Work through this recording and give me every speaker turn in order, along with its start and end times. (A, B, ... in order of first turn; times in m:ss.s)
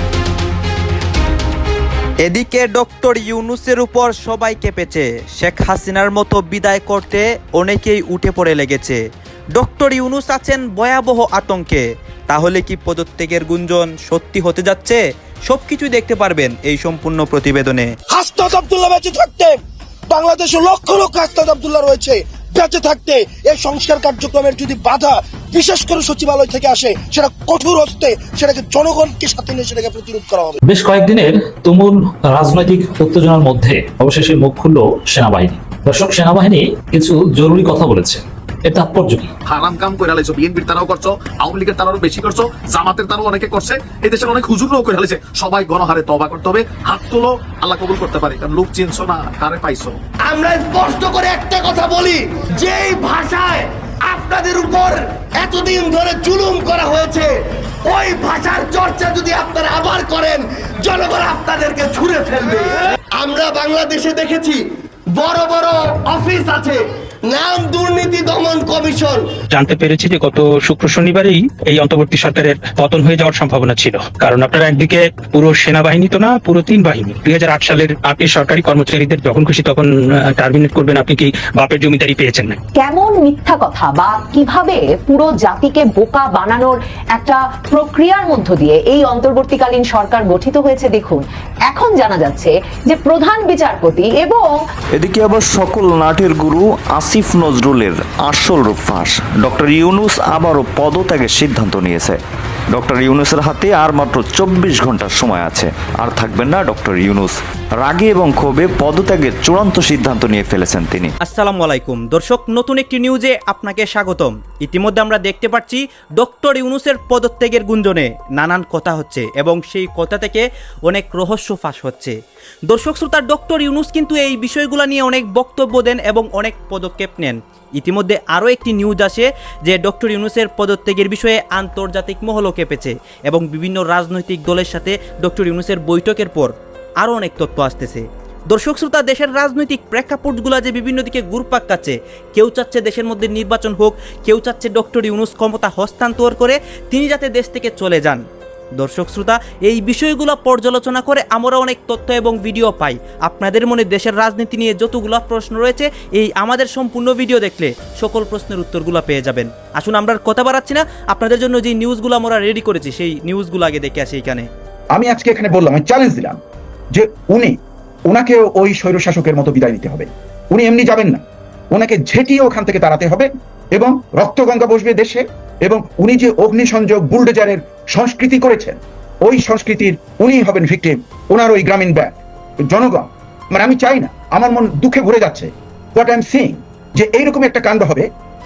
0:02.2-0:09.0 A
0:09.6-0:17.9 A
0:18.1-0:19.6 B
0:20.1-0:30.6 B
0:30.6-0:39.3 C
0:39.5-0:50.0 D
0:50.2-0:57.3 E
0:57.8-1:09.3 E
1:09.5-1:22.6 F
1:22.8-1:34.5 G
1:35.0-1:42.2 H
1:42.7-1:51.1 H
1:51.2-2:02.2 A
2:02.7-2:28.2 A
2:28.8-2:44.5 A
2:44.9-2:46.4 I
2:46.9-3:08.1 I